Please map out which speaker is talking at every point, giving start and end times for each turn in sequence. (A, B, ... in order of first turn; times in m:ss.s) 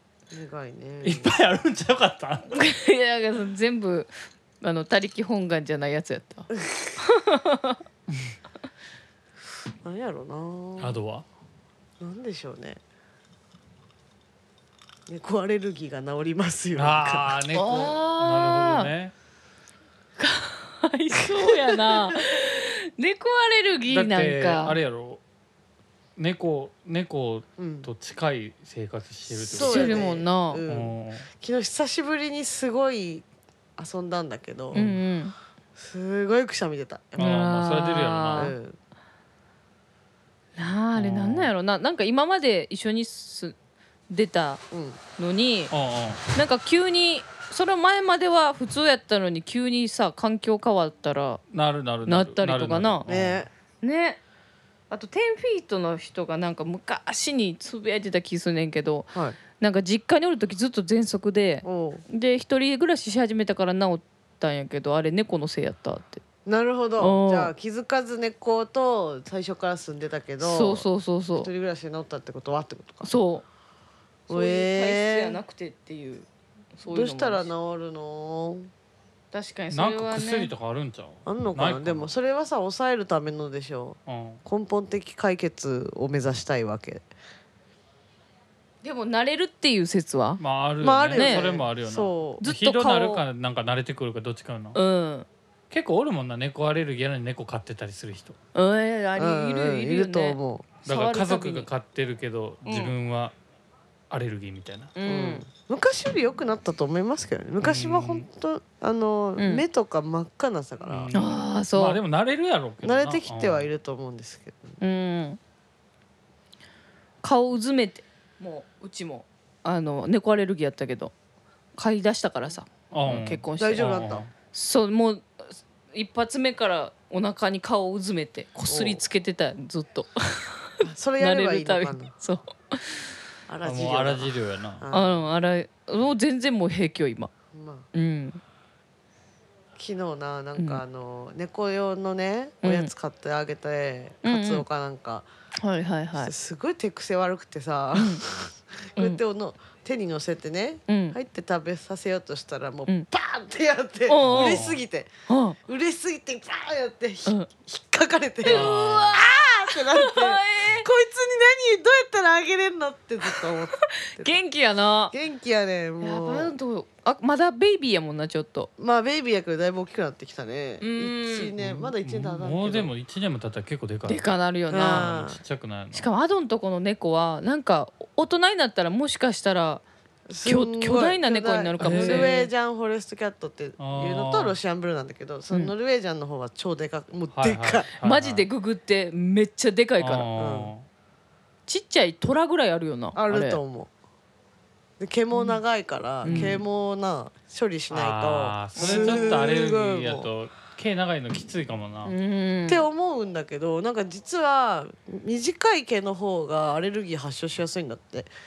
0:00.3-0:01.3 A
0:01.0-0:02.6 B
0:02.5-0:06.5 C
0:07.0-0:07.8 C
0:09.8-0:11.0 A
0:10.8-0:11.2 B
0:12.0-0:12.8 A
0:15.1-0:17.3 A
0:16.7-0:19.1 B
0:17.5-0:18.9 C
0:20.2-0:24.8 C
0:21.3-0:22.2 A
0:23.9-0:25.2 B
0:26.2-0:30.1 B
0:27.6-0:27.9 A
0:29.3-0:33.2 A
0:29.5-0:30.6 C
0:30.7-0:31.3 B
0:33.8-0:34.8 A
0:34.7-0:35.3 C
0:35.8-0:37.4 A
0:37.2-0:38.5 B
0:37.2-0:38.6 C
0:38.3-0:38.8 A
0:40.6-0:43.6 C
0:40.9-0:41.5 B
0:44.1-0:44.6 C
0:44.7-0:45.0 A
0:45.2-0:45.7 C
0:45.7-0:46.2 B
0:46.3-0:51.4 C
0:51.5-0:53.4 B
0:52.0-0:53.1 C
0:53.0-0:53.5 A
0:53.8-0:54.2 C
0:54.9-1:06.2 C
1:01.6-1:02.0 A
1:06.4-1:10.8 A
1:07.0-1:07.5 C
1:10.4-1:11.5 C
1:11.4-1:13.1 A
1:13.0-1:13.4 C
1:14.3-1:15.4 A
1:14.3-1:17.5 C
1:16.9-1:18.7 A
1:19.3-1:20.5 C
1:19.7-1:22.1 B
1:21.2-1:27.0 A
1:24.1-1:24.4 B
1:28.8-1:30.4 C
1:30.4-1:34.8 B
1:30.8-1:32.4 A
1:31.1-1:31.4 C
1:32.4-1:33.2 C
1:34.7-1:35.3 C
1:35.7-1:38.4 B
1:38.5-1:41.7 C
1:39.2-1:40.8 A
1:40.8-1:43.3 B
1:42.6-1:42.9 C
1:44.1-1:44.9 B
1:44.9-1:45.4 C
1:45.0-1:51.1 A
1:47.6-1:48.2 B
1:49.4-1:49.6 C
1:50.9-1:53.7 B
1:51.1-1:52.0 C
1:52.8-1:54.8 A
1:54.8-1:55.4 C
1:57.2-2:01.1 C
2:01.8-2:04.0 C
2:02.9-2:04.3 B
2:03.6-2:04.2 A
2:04.5-2:13.1 C
2:08.7-2:09.0 A
2:10.8-2:12.1 A
2:13.5-2:15.2 A
2:13.6-2:14.8 B
2:14.9-2:17.3 C
2:17.5-2:17.9 A
2:17.9-2:18.4 C
2:19.8-2:25.2 A
2:20.6-2:20.8 C
2:22.6-2:22.9 C
2:24.2-2:24.6 C
2:25.6-2:26.3 C
2:26.2-2:35.1 A
2:28.0-2:28.2 C
2:30.9-2:31.2 C
2:34.1-2:34.6 C
2:34.2-2:34.8 B
2:35.3-2:35.6 C
2:35.6-2:44.4 A
2:38.4-2:40.9 C
2:38.5-2:39.1 B
2:43.8-2:45.1 C
2:45.1-2:46.5 A
2:46.0-2:48.7 C
2:48.8-2:52.9 A
2:50.8-2:51.5 C
2:51.6-2:54.2 B
2:54.1-2:55.1 C
2:54.7-2:55.4 A
2:54.8-2:56.1 B
2:55.9-2:59.8 C
3:00.3-3:07.9 A
3:00.4-3:02.5 C
3:01.8-3:02.4 B
3:03.8-3:04.6 B
3:07.3-3:08.4 B
3:08.0-3:10.3 C
3:10.0-3:10.8 B
3:10.4-3:10.7 A
3:11.7-3:13.6 C
3:13.1-3:13.9 A
3:15.0-3:20.3 A
3:15.3-3:15.6 C
3:16.2-3:16.6 C
3:16.2-3:16.6 B
3:17.9-3:22.1 B
3:18.8-3:19.5 C
3:22.0-3:22.8 C
3:22.7-3:28.3 A